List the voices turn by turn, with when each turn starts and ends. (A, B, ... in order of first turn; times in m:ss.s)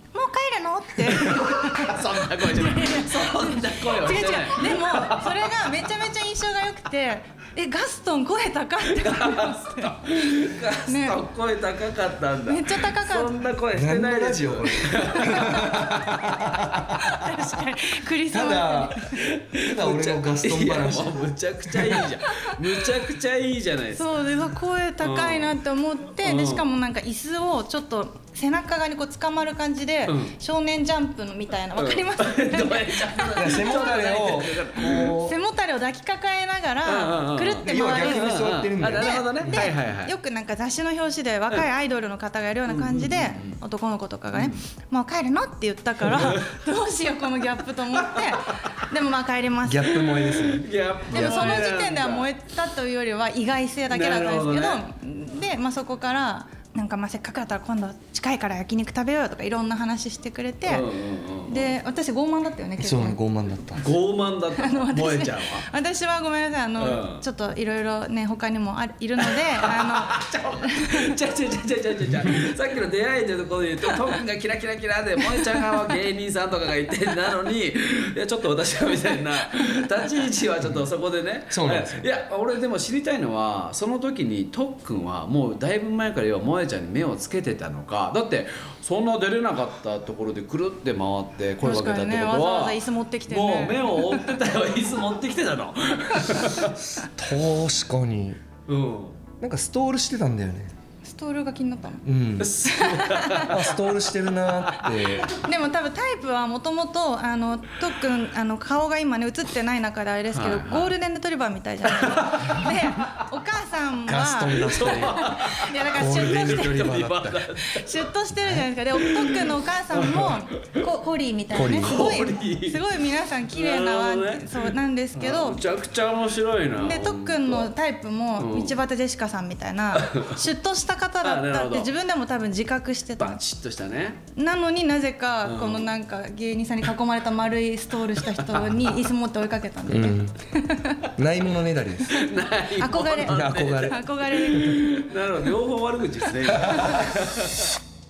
0:00.1-0:10.0 A
0:01.0-0:05.5 B
0:09.0-0:17.0 B
0:10.8-0:11.2 A
0:12.5-0:13.3 A
0:13.7-0:17.2 C
0:15.2-0:15.6 A
0:17.1-0:19.2 A
0:18.3-0:22.1 C
0:19.1-0:24.1 B
0:23.9-0:33.7 A
0:25.0-0:25.6 B
0:26.2-0:26.6 B
0:30.0-0:30.4 B
0:31.8-0:35.2 B
0:33.4-0:35.3 C
0:35.0-0:50.0 A
0:36.8-0:40.1 B
0:37.6-0:39.7 C
0:42.7-0:43.6 B
0:46.1-0:46.6 B
0:47.9-0:48.8 B
0:49.6-0:51.6 C
0:49.9-0:52.3 B
0:51.1-1:00.9 A
0:53.9-0:54.9 B
1:00.6-1:01.7 B
1:01.5-1:03.2 A
1:02.8-1:03.9 C
1:03.8-1:05.7 B
1:04.6-1:11.2 A
1:06.8-1:07.2 B
1:09.2-1:36.7 B
1:15.3-1:15.9 A
1:21.5-1:22.1 C
1:31.6-1:34.3 A
1:36.6-1:38.4 C
1:38.7-1:39.2 B
1:39.4-1:40.7 C
1:41.0-1:42.0 A
1:42.0-1:42.6 C
1:42.4-1:43.8 B
1:42.6-1:43.5 A
1:43.4-1:45.3 C
1:45.3-1:56.9 A
1:50.3-1:50.9 B
1:51.9-1:52.7 B
1:54.1-1:57.5 C
1:54.7-1:58.1 B
1:57.6-2:05.6 A
1:58.9-2:00.8 B
2:01.5-2:02.1 C
2:01.6-2:02.8 B
2:03.5-2:07.7 B
2:06.8-2:13.4 A
2:08.4-2:08.8 B
2:09.9-2:10.4 B
2:11.2-2:11.9 B
2:13.2-2:14.2 B
2:14.3-2:21.1 A
2:15.4-2:15.9 B
2:18.2-2:18.9 B
2:19.9-2:20.4 C
2:21.1-2:22.2 C
2:22.1-2:27.7 B
2:22.8-2:24.9 A
2:23.2-2:24.0 C
2:26.6-2:26.9 C